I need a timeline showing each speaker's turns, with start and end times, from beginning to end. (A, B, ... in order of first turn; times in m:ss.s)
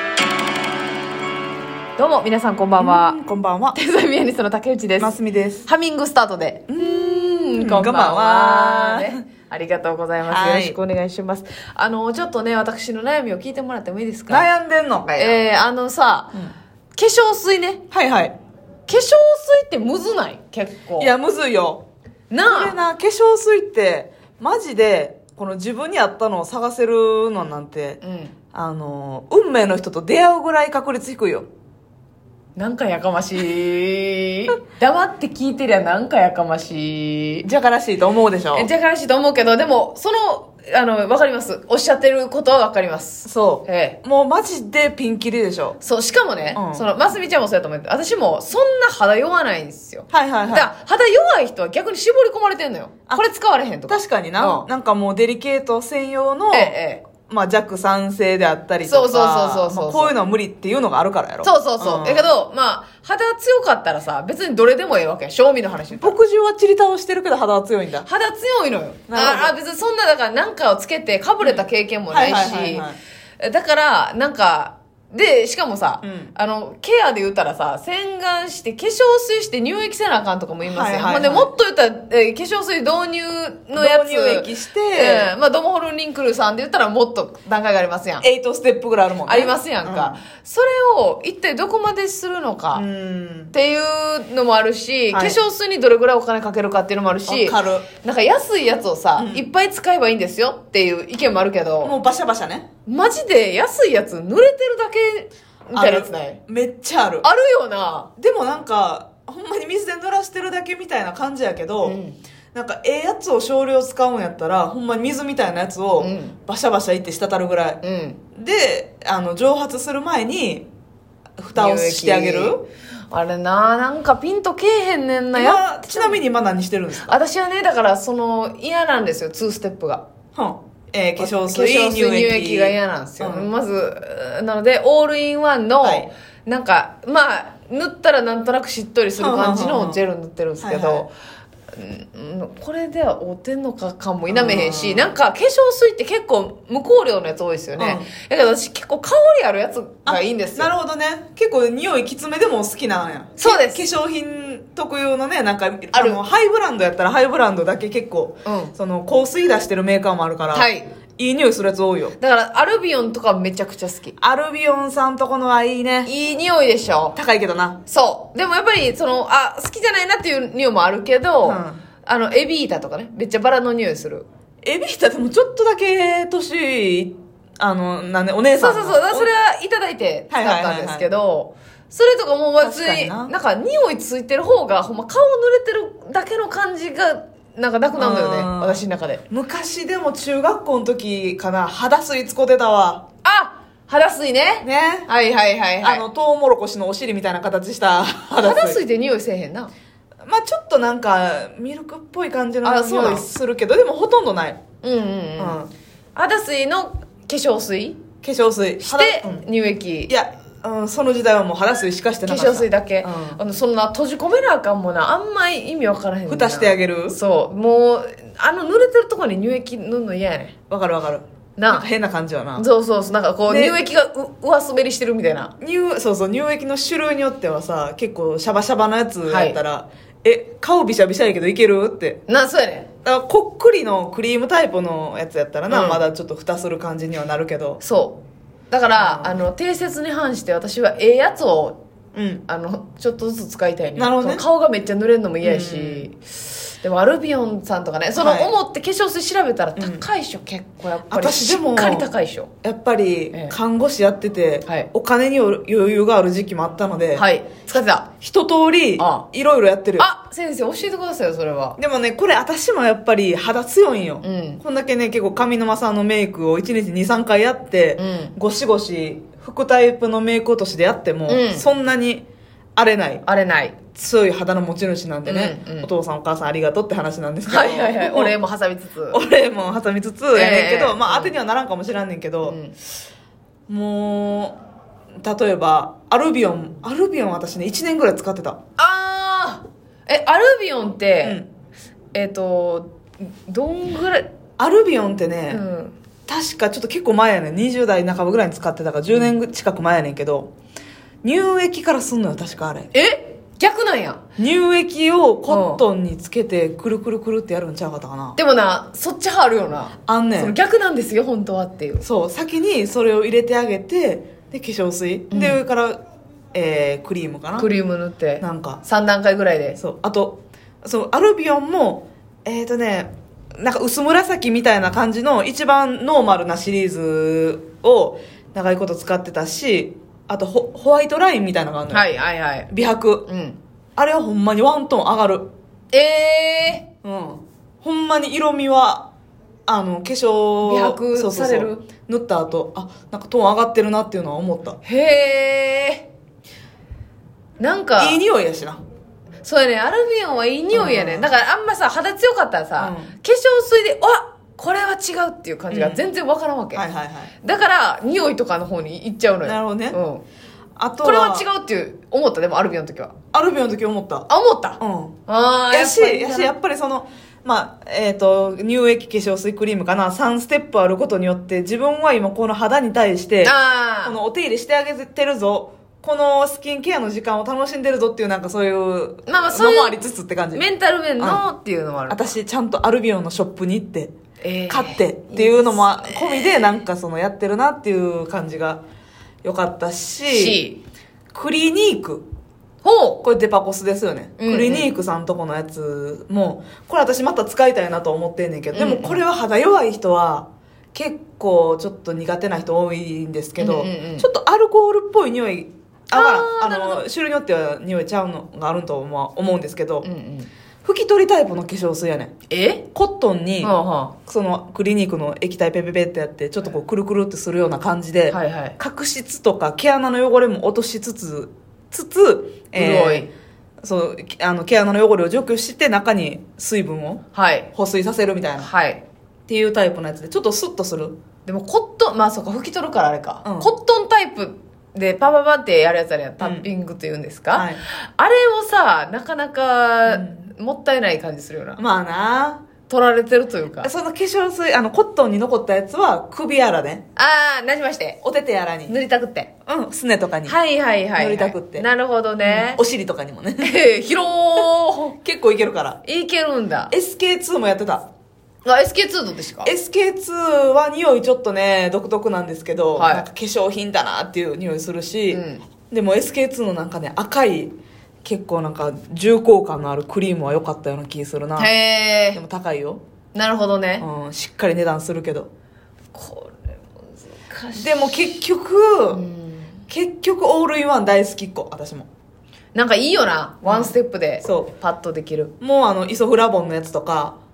0:02.0-0:03.2 A
0:02.8-0:03.8 B
0:03.7-0:14.5 A
0:05.0-0:05.7 B
0:06.7-0:09.2 B
0:10.3-0:10.8 B
0:14.3-0:15.4 B
0:15.1-0:16.4 A
0:17.0-0:17.8 A
0:17.9-0:18.4 B
0:18.9-0:21.1 A
0:21.0-0:21.8 B
0:22.3-0:22.8 A
0:22.4-0:28.0 B
0:28.0-0:28.3 A
0:28.5-0:31.5 B
0:32.6-0:37.4 A
0:37.4-0:38.7 B
0:38.5-0:44.0 A
0:43.2-0:45.8 B
0:45.8-0:54.7 A
0:46.6-0:46.8 B
0:50.1-0:50.7 B
0:53.9-1:02.3 B
0:56.5-0:57.0 A
0:58.8-1:00.2 A
1:01.4-1:06.2 A
1:05.9-1:08.1 B
1:08.0-1:12.9 A
1:09.1-1:09.6 B
1:11.4-1:13.0 B
1:13.4-1:28.2 A
1:16.0-1:16.3 B
1:20.6-1:21.5 B
1:23.8-1:25.3 B
1:28.2-1:30.2 B
1:29.3-1:32.8 A
1:32.7-1:33.5 B
1:33.5-1:42.0 A
1:35.1-1:35.4 B
1:37.3-1:37.9 B
1:39.2-1:39.5 B
1:41.8-1:42.7 B
1:42.8-1:46.4 A
1:45.7-1:47.3 B
1:47.2-1:48.1 A
1:48.2-1:52.0 B
1:51.8-1:52.2 A
1:52.5-1:57.8 B
1:56.0-1:56.4 A
1:57.8-1:58.2 A
1:58.3-2:00.7 B
2:01.4-2:02.6 B
2:01.5-2:02.6 A
2:03.1-2:06.2 A
2:05.3-2:07.2 B
2:07.1-2:10.0 A
2:10.3-2:13.5 B
2:11.2-2:21.1 A
2:15.8-2:16.1 B
2:19.2-2:20.0 B
2:20.6-2:21.1 B
2:21.7-2:30.7 A
2:24.3-2:25.1 B
2:27.8-2:28.1 B
2:30.1-2:42.2 B
2:33.4-2:33.8 A
2:35.9-2:36.2 A
2:38.4-2:38.7 A
2:40.5-2:40.9 A
2:42.2-2:44.1 A
2:44.2-2:46.1 B
2:46.0-2:47.2 A
2:47.1-2:47.8 B
2:47.8-2:54.2 A
2:51.4-2:51.8 B
2:54.6-2:59.3 B
2:58.6-3:09.2 A
3:00.3-3:01.1 B
3:02.6-3:03.3 B
3:08.0-3:13.0 B
3:13.2-3:16.0 A
3:14.6-3:15.1 B
3:15.8-3:18.8 B
3:18.4-3:19.7 A
3:20.2-3:24.6 B
3:22.6-3:23.3 A
3:24.8-3:25.6 A
3:25.4-3:25.7 B
3:26.1-3:28.0 A
3:28.2-3:29.4 B
3:28.8-3:30.1 A
3:30.1-3:33.4 B
3:32.2-3:40.5 A
3:36.3-3:37.2 B
3:40.7-3:42.7 B
3:41.6-3:41.9 A
3:42.6-3:45.5 A
3:43.5-3:43.8 B
3:45.6-3:52.2 B
3:49.2-3:49.6 A
3:52.3-3:52.9 A
3:53.0-3:57.8 B
3:55.7-3:56.0 A
3:57.8-4:01.8 A
3:58.9-3:59.4 B
4:02.1-4:02.4 B
4:02.5-4:12.5 A
4:04.0-4:04.4 B
4:05.4-4:06.1 B
4:08.2-4:08.5 B
4:09.8-4:10.1 B
4:11.1-4:12.1 B
4:12.6-4:17.2 B
4:17.1-4:18.1 A
4:18.2-4:20.1 B
4:19.0-4:19.2 A
4:20.0-4:21.8 A
4:21.8-4:33.2 B
4:24.2-4:24.6 A
4:28.0-4:28.3 A
4:31.3-4:31.6 A
4:33.2-4:33.8 A
4:33.9-4:38.4 B
4:35.2-4:35.9 A
4:37.4-4:39.2 A
4:39.1-4:42.6 B
4:40.3-4:41.3 A
4:42.4-4:42.7 A
4:43.7-4:44.6 B
4:45.2-4:48.6 B
4:48.8-4:51.4 A
4:51.2-4:51.5 B
4:52.1-4:54.3 A
4:54.6-4:55.6 B
4:55.5-4:55.9 A
4:56.3-5:00.5 B
5:01.2-5:02.9 B
5:02.9-5:04.2 A
5:04.4-5:08.4 B
5:05.5-5:05.8 A
5:08.4-5:12.0 A
5:10.1-5:10.6 B
5:12.0-5:16.0 B
5:15.3-5:15.6 A
5:16.5-5:17.7 B
5:17.6-5:19.8 A
5:18.4-5:18.8 B
5:19.8-5:32.0 B
5:31.9-5:32.7 A
5:32.7-5:33.3 B
5:33.3-5:33.6 A
5:34.0-5:35.5 B
5:35.9-5:36.9 A
5:37.0-5:39.1 B
5:39.7-5:44.8 B
5:40.6-5:41.9 A
5:44.8-5:46.1 A
5:47.6-5:48.2 A
5:48.0-5:48.8 B
5:49.4-5:56.8 A
5:50.7-5:51.3 B
5:52.8-5:53.2 B
5:55.7-5:56.1 B
5:56.7-5:57.3 B
5:57.4-6:00.2 A
5:59.4-6:00.0 B
6:00.8-6:01.5 B
6:01.0-6:03.1 A
6:03.3-6:04.3 B
6:04.3-6:06.5 A
6:04.8-6:05.2 B
6:05.7-6:20.6 B
6:13.4-6:14.2 A
6:19.2-6:20.0 A
6:20.5-6:22.2 A
6:21.2-6:21.4 B
6:22.1-6:24.1 B
6:24.4-6:26.7 A
6:24.7-6:28.8 B
6:29.4-6:30.6 B
6:30.3-6:30.8 A
6:31.3-6:32.3 B
6:32.8-6:33.2 A
6:33.2-6:50.1 B
6:34.4-6:34.9 A
6:38.7-6:39.2 A
6:43.6-6:44.3 A
6:46.1-6:47.0 A
6:50.0-6:50.5 A
6:50.8-6:52.3 B
6:52.5-6:52.8 A
6:52.9-6:53.7 B
6:53.6-6:54.1 A
6:54.2-7:03.3 B
6:58.3-6:58.8 A
7:02.7-7:03.3 A
7:03.8-7:07.2 B
7:07.3-7:07.7 A
7:07.7-7:08.7 B
7:08.6-7:09.0 A
7:09.5-7:11.2 B
7:11.4-7:21.8 A
7:13.4-7:13.7 B
7:16.4-7:16.7 B
7:17.5-7:17.8 B
7:20.1-7:20.5 B
7:21.8-7:22.6 B
7:22.9-7:23.9 A
7:23.8-7:27.0 B
7:27.2-7:28.2 A
7:28.2-7:28.9 B
7:28.9-7:29.5 A
7:29.6-7:30.6 B
7:30.4-7:32.8 A
7:31.2-7:31.9 B
7:32.4-7:33.7 B
7:33.6-7:35.2 A
7:35.2-7:36.0 B
7:36.0-7:36.9 A
7:36.9-7:38.0 B
7:38.6-7:39.7 A
7:39.6-7:51.7 B
7:43.0-7:43.3 A
7:45.3-7:45.6 A
7:51.6-7:52.4 A
7:52.3-7:53.0 B
7:53.3-7:54.1 A
7:54.0-7:55.5 B
7:56.1-7:56.6 A
7:57.2-7:58.1 A
7:57.8-7:59.2 B
7:59.1-7:59.8 A
7:59.9-8:02.1 B
8:02.8-8:05.5 A
8:03.6-8:04.7 B
8:05.6-8:07.4 B